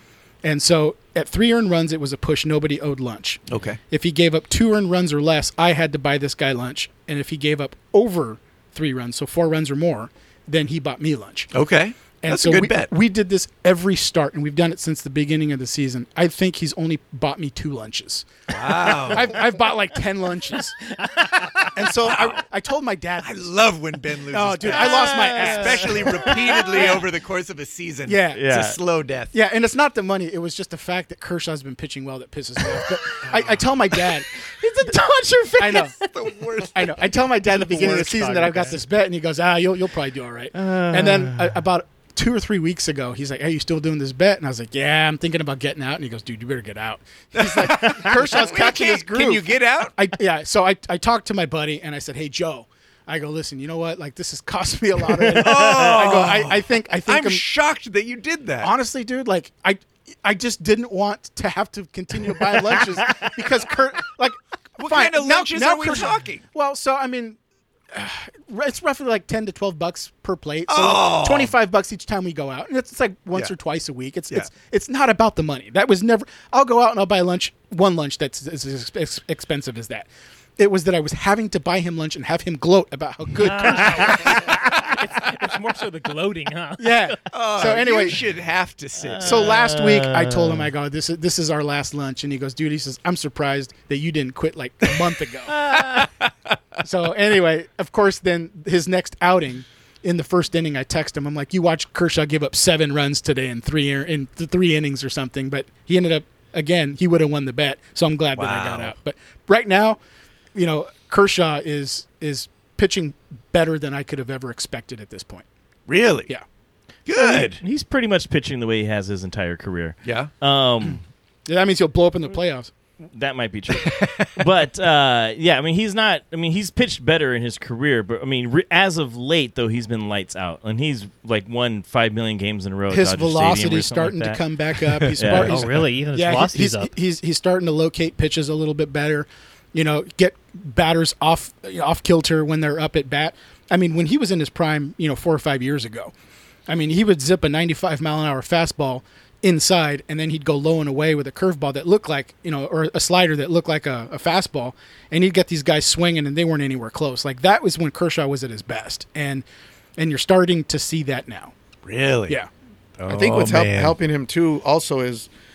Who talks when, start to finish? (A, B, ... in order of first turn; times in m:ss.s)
0:00.4-0:11.5 A
0:03.5-0:03.8 B
0:11.5-0:12.9 B
0:12.2-0:18.3 A
0:18.5-0:19.4 B
0:19.0-0:23.5 A
0:21.2-0:21.6 C
0:22.0-0:22.5 B
0:23.2-0:29.3 B
0:24.3-0:26.9 A
0:24.6-0:27.0 C
0:28.1-0:28.4 A
0:28.3-0:28.8 C
0:29.3-0:35.0 A
0:34.4-0:36.1 C
0:35.6-0:35.9 A
0:36.1-0:37.8 B
0:36.6-0:57.4 A
0:37.5-0:38.8 D
0:40.5-0:41.7 C
0:47.4-0:50.1 B
0:55.2-0:58.7 B
0:55.6-0:56.2 C
0:58.6-1:07.4 A
1:04.8-1:06.5 B
1:07.9-1:24.7 A
1:10.7-1:11.6 B
1:23.4-1:27.2 D
1:24.2-1:24.5 C
1:26.8-1:28.2 A
1:27.3-1:29.6 B
1:29.0-1:30.7 C
1:29.2-1:35.7 A
1:35.5-1:36.6 B
1:36.8-1:50.0 A
1:48.4-1:49.0 B
1:50.5-1:55.4 A
1:55.9-1:56.3 B
1:57.1-1:57.6 B
1:57.2-2:01.0 C
2:00.0-2:00.3 B
2:01.5-2:02.7 A
2:03.1-2:14.4 C
2:03.7-2:04.4 B
2:12.9-2:26.1 A
2:15.1-2:15.6 C
2:15.3-2:16.9 D
2:26.7-2:39.4 A
2:40.0-2:41.5 A
2:41.8-2:42.4 B
2:43.0-2:44.0 B
2:43.1-2:45.3 E